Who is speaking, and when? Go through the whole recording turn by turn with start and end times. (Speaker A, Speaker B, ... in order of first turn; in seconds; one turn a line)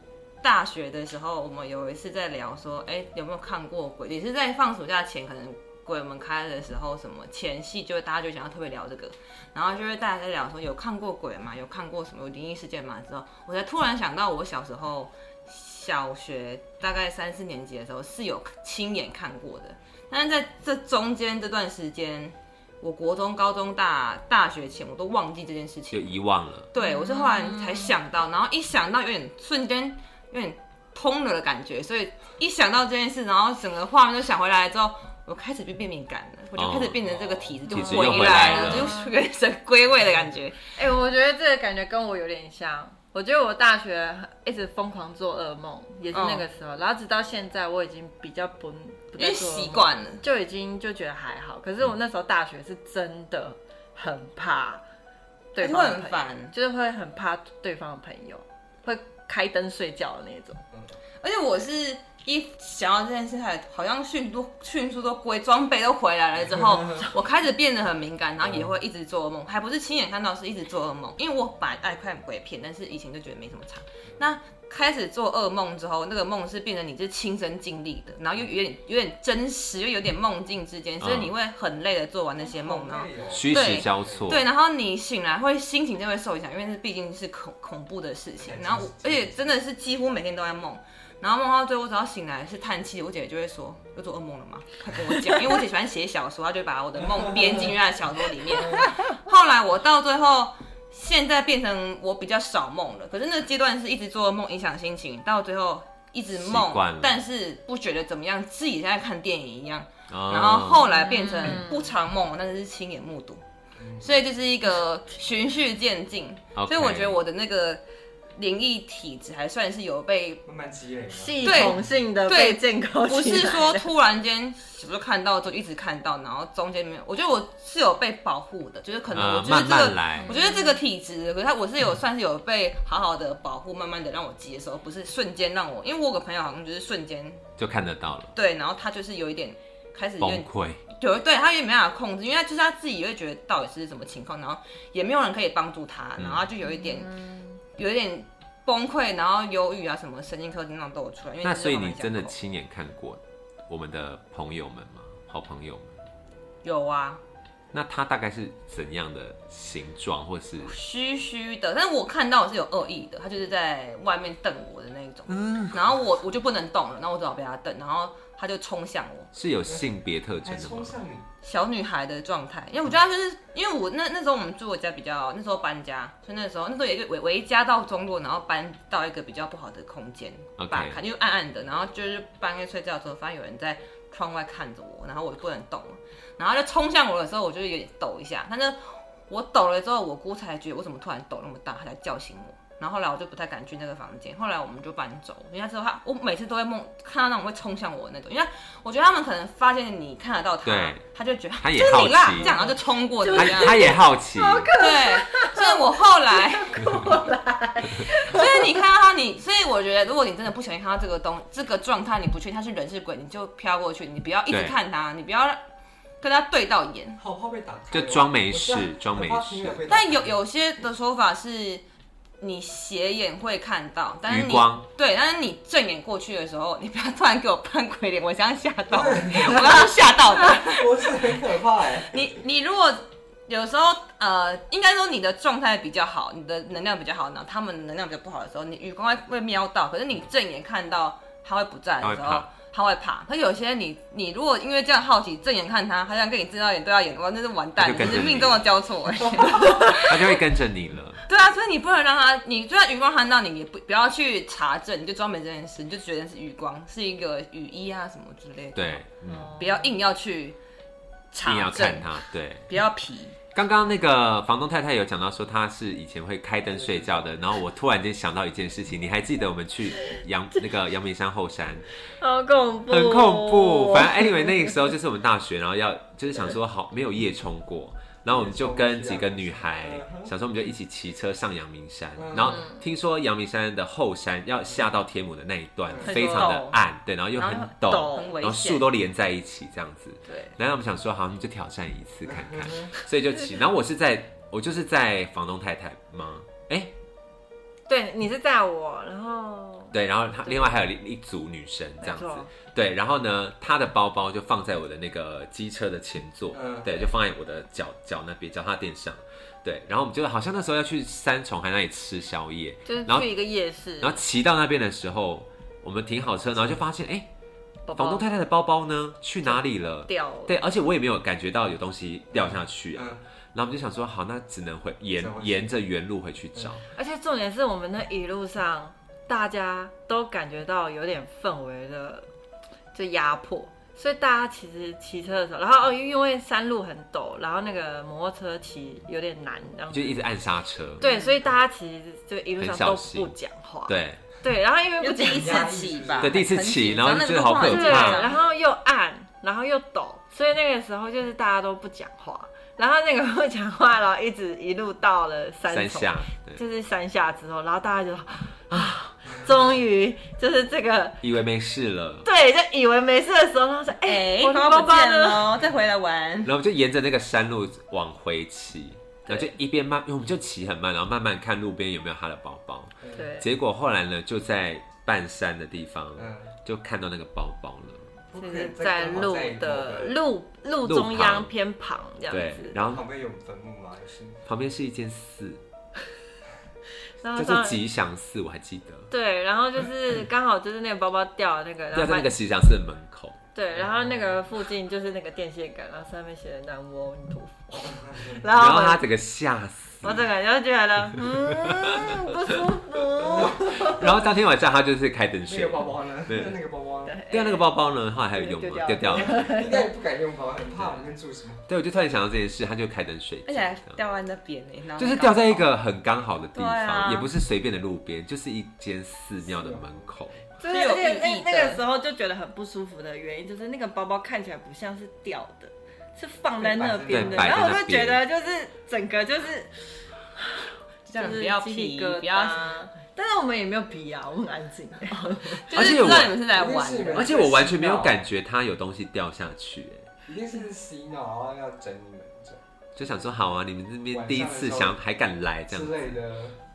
Speaker A: 0.4-26.1
Speaker B: 25.9-26.7
Speaker A: 26.7-40.6
Speaker C: 26.8-27.9
Speaker B: 36.5-37.0
Speaker D: 37.0-37.6
Speaker B: 37.6-39.0
Speaker C: 37.7-39.1
Speaker C: 40.7-54.8
Speaker A: 46.1-46.4
Speaker A: 49.2-50.2
Speaker C: 55.5-60.6
Speaker A: 55.6-56.5
Speaker D: 60.7-61.0
Speaker A: 61.2-113.4
Speaker D: 66.5-67.1
Speaker D: 68.4-68.7
Speaker B: 81.0-81.3
Speaker D: 82.4-84.4
Speaker B: 83.3-84.4
Speaker D: 88.4-89.6
Speaker B: 106.3-107.2
Speaker B: 110.1-110.9
Speaker C: 110.9-111.9
Speaker D: 113.8-114.2
Speaker A: 114.0-117.8
Speaker B: 116.5-117.2
Speaker A: 118.3-120.4
Speaker D: 120.5-121.9
Speaker C: 121.1-123.8
Speaker A: 121.4-137.5
Speaker B: 129.1-130.3
Speaker C: 130.2-130.8
Speaker B: 137.6-138.3
Speaker A: 138.3-147.1
Speaker B: 140.2-140.8
Speaker B: 146.2-146.4
Speaker C: 146.8-147.6
Speaker A: 147.8-152.3
Speaker B: 151.4-156.0
Speaker A: 156.6-157.2
Speaker B: 157.7-160.7
Speaker A: 160.6-169.3
Speaker B: 165.3-165.8
Speaker B: 169.3-170.9
Speaker D: 170.4-171.3
Speaker A: 171.4-203.9
Speaker B: 180.6-181.0
Speaker B: 200.6-201.0
Speaker B: 201.6-202.6
Speaker C: 202.3-208.7
Speaker B: 203.3-204.7
Speaker A: 204.7-207.2
Speaker A: 208.1-215.6
Speaker B: 214.5-214.8
Speaker A: 216.2-217.2
Speaker D: 217.2-220.3
Speaker B: 217.9-219.8
Speaker A: 219.9-221.8
Speaker A: 222.4-231.2
Speaker B: 224.3-224.8
Speaker D: 228.9-232.3
Speaker A: 232.1-250.4
Speaker B: 242.0-242.5
Speaker B: 247.8-248.7
Speaker B: 249.8-251.2
Speaker A: 251.3-259.0
Speaker B: 258.7-259.5
Speaker C: 259.3-259.9
Speaker A: 259.6-260.6
Speaker A: 261.3-263.4
Speaker B: 261.4-262.7
Speaker B: 263.5-271.9
Speaker D: 266.8-267.2
Speaker C: 272.2-274.7
Speaker B: 272.9-296.9
Speaker D: 278.3-280.3
Speaker D: 282.1-282.6
Speaker C: 282.5-282.8
Speaker D: 285.9-286.2
Speaker A: 286.0-286.7
Speaker C: 286.0-286.8
Speaker A: 287.3-288.9
Speaker C: 287.9-288.2
Speaker D: 292.3-292.9
Speaker C: 297.9-300.8
Speaker B: 299.9-313.3
Speaker C: 302.0-302.5
Speaker D: 306.5-307.1
Speaker C: 312.9-314.2
Speaker B: 314.0-317.3
Speaker C: 317.9-318.2
Speaker B: 317.9-326.8
Speaker C: 319.4-320.6
Speaker D: 322.3-323.2
Speaker D: 325.1-325.7
Speaker D: 326.5-326.8
Speaker C: 326.9-332.3
Speaker C: 332.9-340.3
Speaker B: 339.9-341.0
Speaker C: 341.0-345.9
Speaker B: 342.6-343.3
Speaker B: 343.9-344.2
Speaker A: 345.0-348.4
Speaker D: 345.4-346.3
Speaker B: 346.2-348.2
Speaker C: 347.6-361.2
Speaker B: 355.7-356.6
Speaker B: 361.2-362.3
Speaker C: 362.2-365.5
Speaker A: 364.1-366.5
Speaker B: 366.4-378.1
Speaker C: 369.2-369.5
Speaker D: 373.0-373.3
Speaker C: 373.1-373.5
Speaker D: 376.1-376.5
Speaker D: 378.3-380.2
Speaker C: 378.4-382.8
Speaker B: 380.8-381.5
Speaker B: 382.3-383.1
Speaker D: 382.8-384.4
Speaker B: 384.4-385.6
Speaker C: 387.2-387.8
Speaker B: 387.3-389.1
Speaker C: 389.1-392.3
Speaker B: 391.9-393.4
Speaker C: 393.5-399.0
Speaker D: 393.7-394.4
Speaker D: 397.9-398.4
Speaker B: 398.5-400.3
Speaker C: 400.0-404.1
Speaker B: 401.1-402.2
Speaker D: 403.4-403.6
Speaker B: 403.4-406.6
Speaker D: 405.5-407.2
Speaker C: 407.1-407.7
Speaker B: 407.3-409.5
Speaker C: 408.3-409.9
Speaker D: 409.1-411.6
Speaker B: 410.8-411.0
Speaker B: 411.7-414.0
Speaker A: 413.4-415.7
Speaker B: 415.0-420.4
Speaker A: 416.6-417.2
Speaker C: 416.6-417.2
Speaker D: 419.4-420.1
Speaker C: 420.6-435.7
Speaker A: 420.6-421.8
Speaker D: 426.6-427.7
Speaker B: 427.1-428.2
Speaker A: 431.1-432.7
Speaker A: 435.6-437.5
Speaker B: 435.7-436.4
Speaker D: 436.4-438.2
Speaker B: 437.1-440.1
Speaker D: 440.2-442.6
Speaker B: 442.9-446.1
Speaker D: 444.1-444.9
Speaker D: 445.7-446.6